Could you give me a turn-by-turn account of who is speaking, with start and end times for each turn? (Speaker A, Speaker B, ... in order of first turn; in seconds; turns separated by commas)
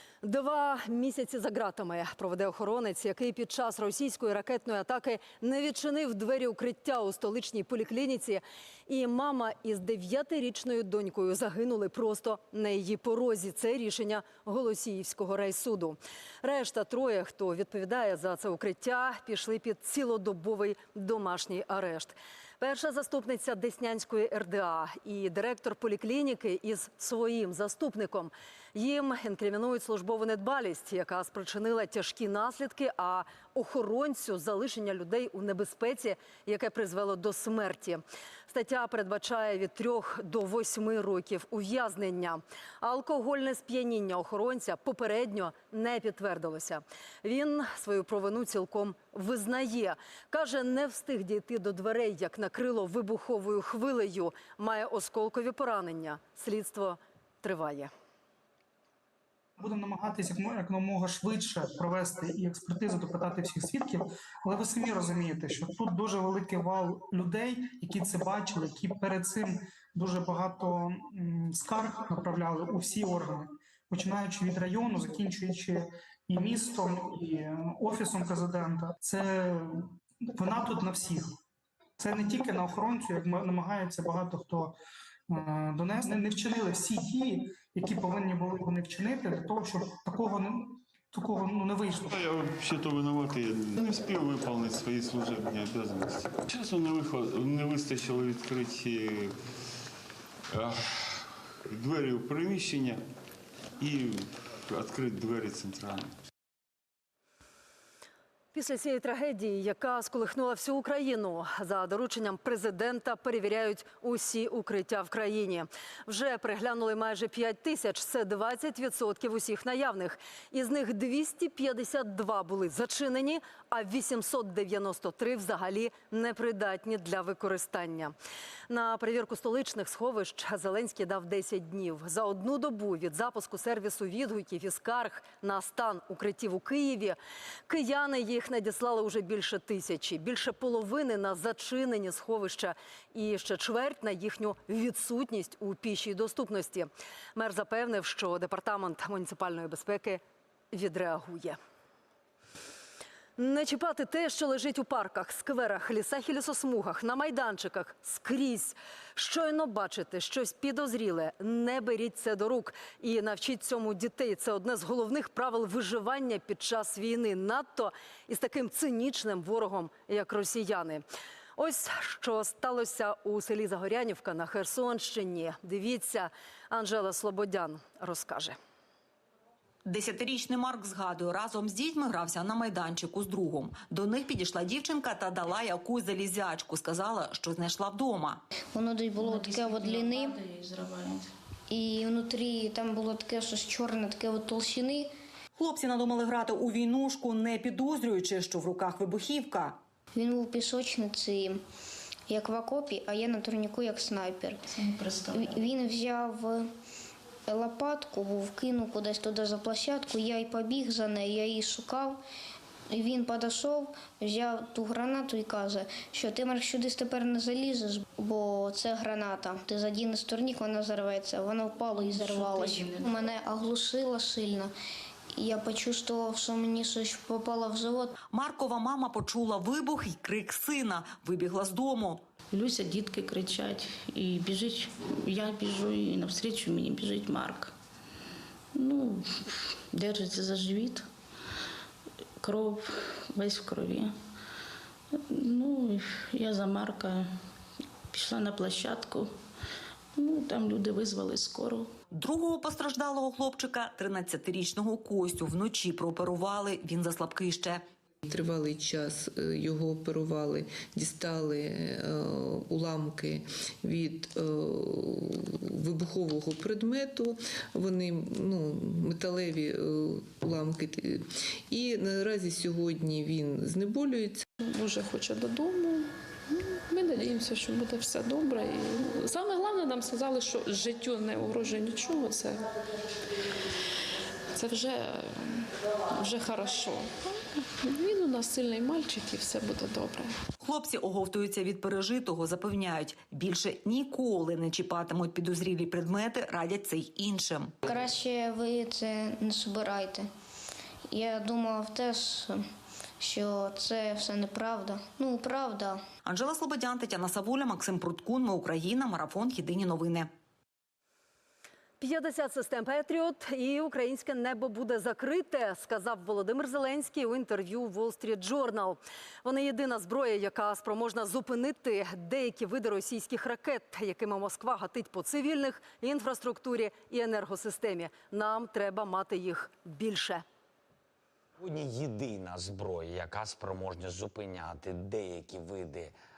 Speaker A: 0.2-57.9, Speaker B: 59.6-81.3, Speaker B: 82.0-84.8, Speaker B: 85.3-92.2, Speaker C: 92.1-99.3, Speaker C: 100.5-103.0, Speaker C: 103.8-106.1, Speaker A: 108.5-128.1, Speaker A: 128.7-137.2, Speaker A: 137.7-150.2, Speaker A: 150.7-151.6, Speaker A: 153.4-171.0, Speaker A: 171.6-178.6, Speaker D: 179.8-188.4, Speaker E: 188.7-190.4, Speaker F: 189.2-191.3, Speaker E: 191.7-195.1, Speaker D: 195.6-199.8, Speaker E: 200.1-201.6, Speaker E: 202.3-204.7, Speaker F: 204.8-205.5, Speaker E: 205.3-206.7, Speaker E: 207.5-212.2, Speaker E: 212.9-224.7, Speaker F: 222.1-223.0, Speaker E: 225.4-228.1, Speaker D: 228.3-232.2, Speaker F: 232.5-237.7, Speaker F: 238.7-239.2, Speaker F: 239.9-241.1, Speaker F: 242.4-244.1, Speaker F: 245.3-247.2, Speaker F: 248.1-249.3, Speaker F: 250.2-251.9, Speaker D: 252.1-257.8, Speaker G: 258.3-274.4, Speaker H: 274.6-276.1, Speaker H: 276.7-282.7, Speaker H: 284.5-285.6, Speaker H: 286.1-287.1, Speaker H: 287.8-290.3, Speaker D: 290.6-297.7, Speaker E: 297.8-300.3, Speaker E: 301.1-302.6, Speaker E: 303.2-306.0, Speaker D: 306.2-310.3, Speaker A: 312.0-330.4, Speaker I: 331.6-336.1